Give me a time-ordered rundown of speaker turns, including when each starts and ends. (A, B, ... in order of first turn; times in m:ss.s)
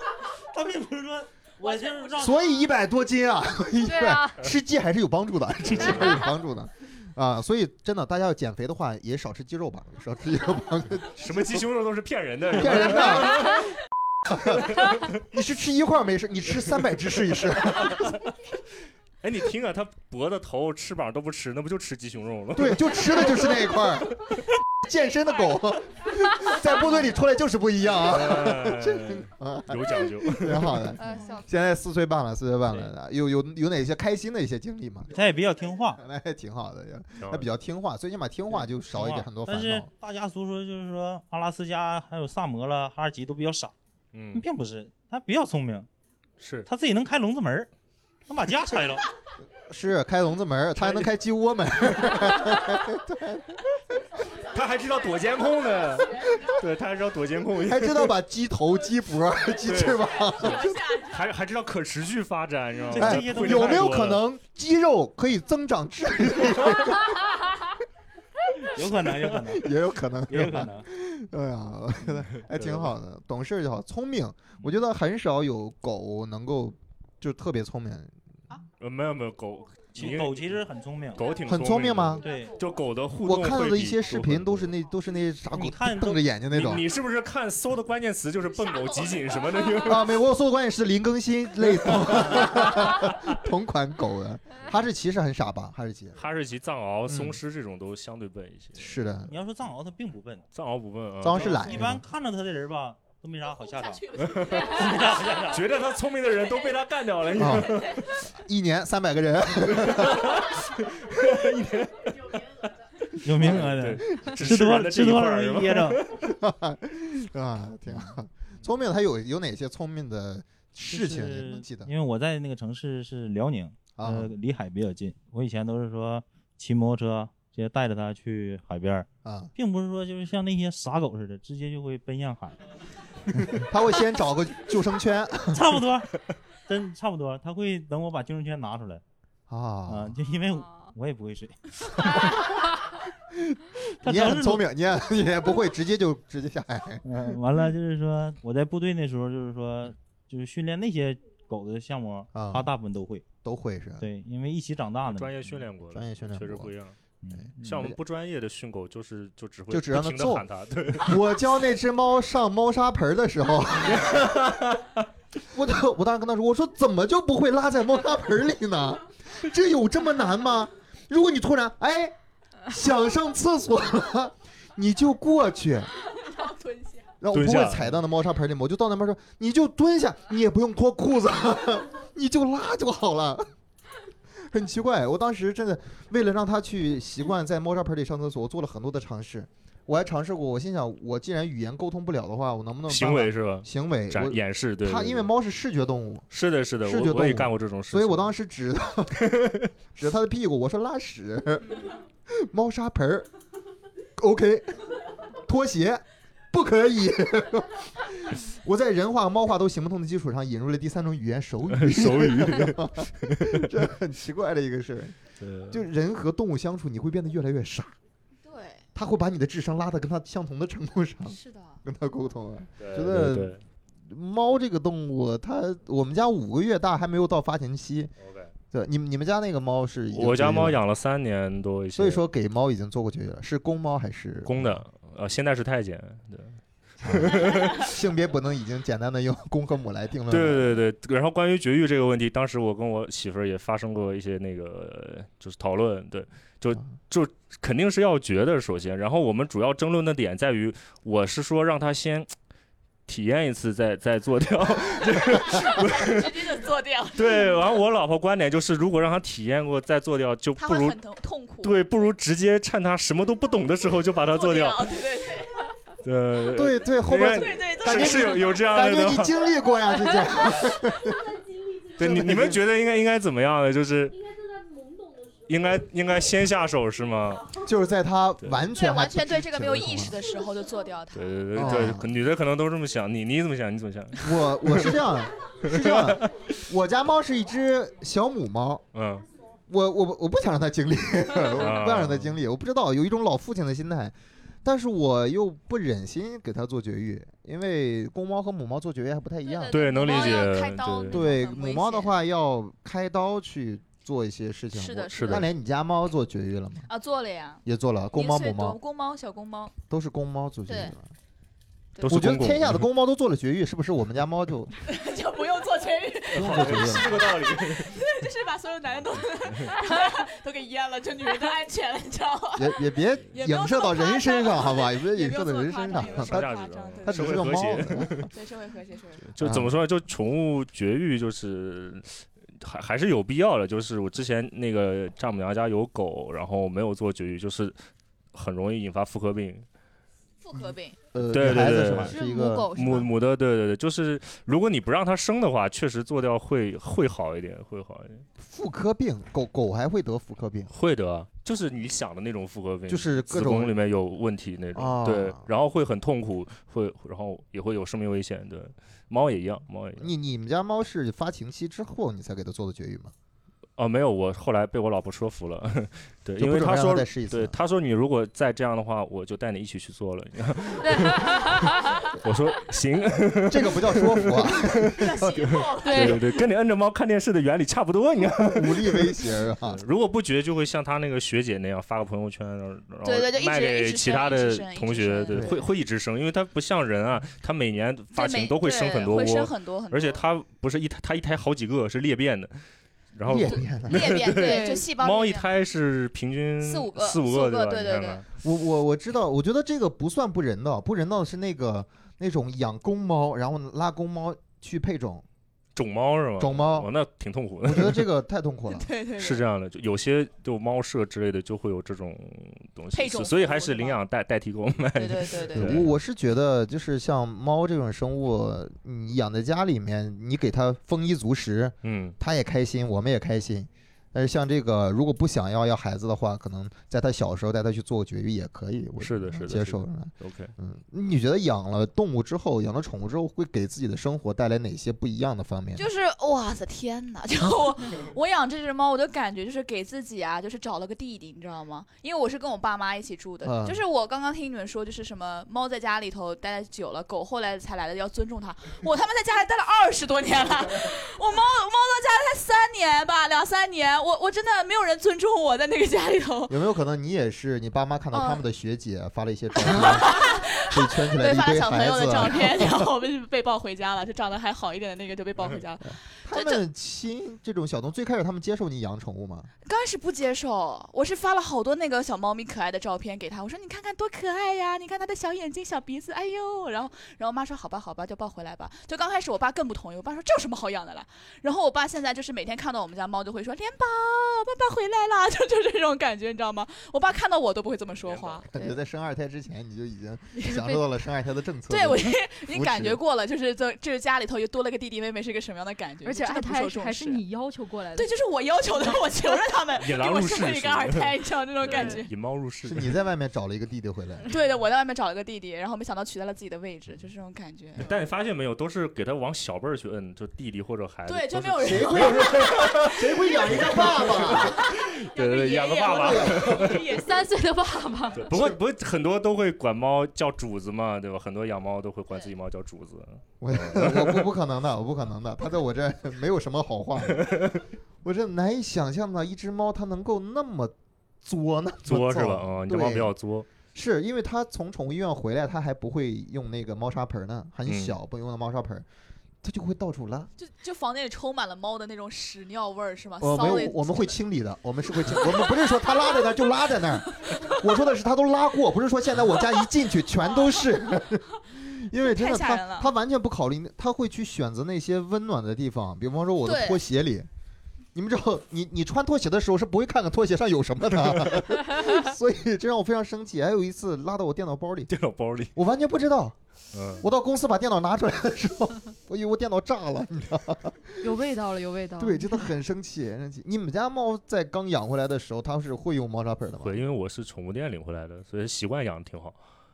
0:00.5-0:02.4 A
0:01.6-0:02.3 B
0:02.2-0:11.6 C
0:03.8-0:04.4 D
0:05.7-0:06.2 E
0:11.1-0:13.7 E
0:12.5-0:13.6 C
0:14.3-0:18.1 C
0:14.5-0:15.1 E
0:17.8-0:18.1 E
0:19.2-0:23.8 E
0:22.5-0:24.2 C
0:24.8-0:35.1 C
0:28.0-0:30.9 E
0:31.0-0:31.5 D
0:35.1-0:36.0 A
0:36.0-0:39.9 C
0:37.2-0:37.5 E
0:38.5-0:43.7 A
0:44.1-0:44.4 E
0:44.3-0:45.9 A
0:46.4-0:46.7 E
0:46.6-0:47.7 A
0:48.3-0:49.0 A
0:49.7-0:53.6 C
0:54.4-0:58.1 E
0:57.6-1:00.8 C
0:59.6-1:04.2 E
1:00.2-1:01.3 B
1:02.9-1:03.9 A
1:02.9-1:07.2 C
1:08.7-1:09.7 A
1:09.4-1:18.1 C
1:10.3-1:10.9 A
1:12.3-1:12.9 E
1:18.8-1:20.6 E
1:19.9-1:21.2 A
1:21.2-1:24.7 E
1:21.5-1:22.2 C
1:22.2-1:22.5 A
1:23.2-1:26.8 C
1:25.5-1:26.2 A
1:26.5-1:30.1 E
1:28.7-1:29.8 B
1:29.8-1:36.2 C
1:31.8-1:32.1 E
1:32.8-1:33.1 E
1:36.2-1:39.0 E
1:37.1-1:37.4 C
1:38.8-1:39.3 C
1:39.3-1:40.4 A
1:40.5-1:41.8 E
1:41.2-1:42.0 C
1:41.3-1:45.6 A
1:43.5-1:45.4 B
1:44.2-1:48.2 E
1:47.4-1:50.4 C
1:49.7-1:52.7 E
1:53.2-1:56.0 A
1:53.4-1:56.3 E
1:56.2-2:01.9 C
2:00.9-2:12.6 A
2:04.0-2:04.3 C
2:09.2-2:09.5 C
2:13.4-2:15.7 C
2:15.5-2:16.1 A
2:16.7-2:19.0 A
2:19.5-2:20.1 C
2:19.9-2:22.0 A
2:22.0-2:22.4 C
2:23.3-2:27.0 C
2:24.0-2:24.6 A
2:27.0-2:33.2 A
2:32.3-2:32.7 C
2:33.4-2:34.0 C
2:34.0-2:35.6 A
2:35.1-2:37.0 E
2:35.9-2:36.7 C
2:37.2-2:37.8 A
2:37.3-2:38.0 C
2:37.6-2:41.3 E
2:39.7-2:44.5 C
2:43.9-2:45.0 E
2:45.5-2:52.2 C
2:52.7-2:55.9 C
2:56.1-2:57.1 B
2:57.2-3:03.4 C
2:57.3-2:58.0 E
3:04.5-3:16.3 C
3:12.9-3:15.3 E
3:16.3-3:18.3 E
3:16.8-3:19.3 C
3:19.2-3:19.7 E
3:19.9-3:23.3 C
3:24.2-3:24.8 C
3:25.4-3:35.2 C
3:31.7-3:33.6 E
3:35.4-3:35.8 E
3:35.7-3:37.9 C
3:38.4-3:38.8 B
3:38.9-3:48.1 C
3:41.3-3:41.8 B
3:42.8-3:43.6 E
3:48.2-3:48.5 E
3:48.7-3:50.8 C
3:50.1-3:52.2 E
3:52.0-3:54.8 C
3:54.4-3:57.8 E
3:57.0-4:00.8 C
4:00.3-4:12.3 E
4:13.1-4:16.6 E
4:15.0-4:17.7 B
4:17.1-4:21.0 E
4:20.6-4:21.8 B
4:21.6-4:24.8 E
4:24.3-4:25.7 B
4:26.0-4:29.4 E
4:26.5-4:31.2 C
4:27.4-4:28.6 B
4:32.0-4:32.6 C
4:32.0-4:34.2 E
4:35.5-4:37.6 E
4:37.6-4:40.2 C
4:38.7-4:41.7 B
4:41.1-4:45.1 E
4:41.5-4:42.1 C
4:44.2-4:48.8 C
4:45.6-4:46.6 E
4:48.9-4:49.2 E
4:49.7-5:00.4 C
4:51.5-4:52.3 E
4:59.4-5:02.2 B
4:59.7-5:01.2 E
5:01.1-5:06.9 C
5:04.7-5:05.4 B
5:05.1-5:05.5 E
5:06.9-5:07.6 B
5:07.6-5:08.8 C
5:08.1-5:09.7 B
5:09.9-5:11.1 C
5:12.0-5:12.8 E
5:12.0-5:14.7 C
5:14.8-5:27.6 B
5:16.3-5:17.2 C
5:16.3-5:18.0 E
5:22.6-5:26.5 C
5:25.9-5:28.3 E
5:27.0-5:28.2 C
5:28.3-5:29.3 B
5:29.3-5:37.8 E
5:29.4-5:29.7 C
5:38.3-5:39.6 E
5:40.4-5:41.0 B
5:41.1-5:42.7 C
5:41.3-5:42.2 E
5:42.0-5:43.1 D
5:42.7-5:48.2 E
5:48.4-5:50.7 C
5:50.7-6:00.1 E
5:52.9-5:53.7 C
5:54.7-5:55.4 C
6:00.0-6:03.1 C
6:03.8-6:32.6 E
6:06.4-6:07.6 C
6:10.8-6:12.1 D
6:13.5-6:15.4 C
6:14.9-6:16.4 B
6:15.8-6:16.2 D
6:18.4-6:19.8 C
6:23.0-6:25.5 B
6:25.3-6:25.6 C
6:28.1-6:30.2 B
6:33.1-6:38.2 E
6:33.2-6:34.1 C
6:33.4-6:35.6 B
6:34.4-6:34.9 D
6:36.6-6:38.2 B
6:38.4-6:45.2 C
6:45.8-6:48.1 E
6:46.4-6:46.9 C
6:47.6-6:48.9 C
6:48.7-6:49.4 B
6:49.2-6:55.9 E
6:52.9-6:54.0 B
6:54.9-6:55.8 B
6:55.5-7:15.8 C
7:01.8-7:02.2 E
7:09.0-7:10.5 E
7:15.8-7:36.5 B
7:23.4-7:23.8 C
7:36.5-7:42.8 C
7:39.6-7:46.6 B
7:46.2-7:49.5 C
7:49.6-8:08.5 B
8:08.0-8:08.4 E
8:08.5-8:13.0 C
8:08.5-8:08.8 D
8:11.7-8:17.2 B
8:16.0-8:18.1 D
8:17.9-8:22.1 B
8:19.7-8:22.9 E
8:21.7-8:22.0 D
8:22.6-8:24.3 C
8:24.2-8:27.9 B
8:27.8-8:36.9 E
8:31.0-8:37.3 B
8:31.6-8:34.6 C
8:35.9-8:36.7 C
8:36.9-8:38.3 D
8:38.1-8:44.3 E
8:43.4-8:47.4 C
8:47.1-8:47.6 E
8:48.0-8:53.1 C
8:51.8-8:53.5 E
8:53.7-8:58.8 C
8:57.7-8:57.9 E
8:59.4-9:00.3 C
9:00.4-9:04.2 B
9:03.2-9:17.3 C
9:05.1-9:06.0 B
9:12.0-9:12.9 B
9:16.4-9:16.8 B
9:17.9-9:24.9 C
9:21.0-9:21.4 E
9:24.9-9:25.5 E
9:25.5-9:26.4 C
9:26.7-9:27.0 E
9:27.0-9:30.9 C
9:31.0-9:32.5 D
9:32.0-9:36.8 C
9:36.6-9:39.4 E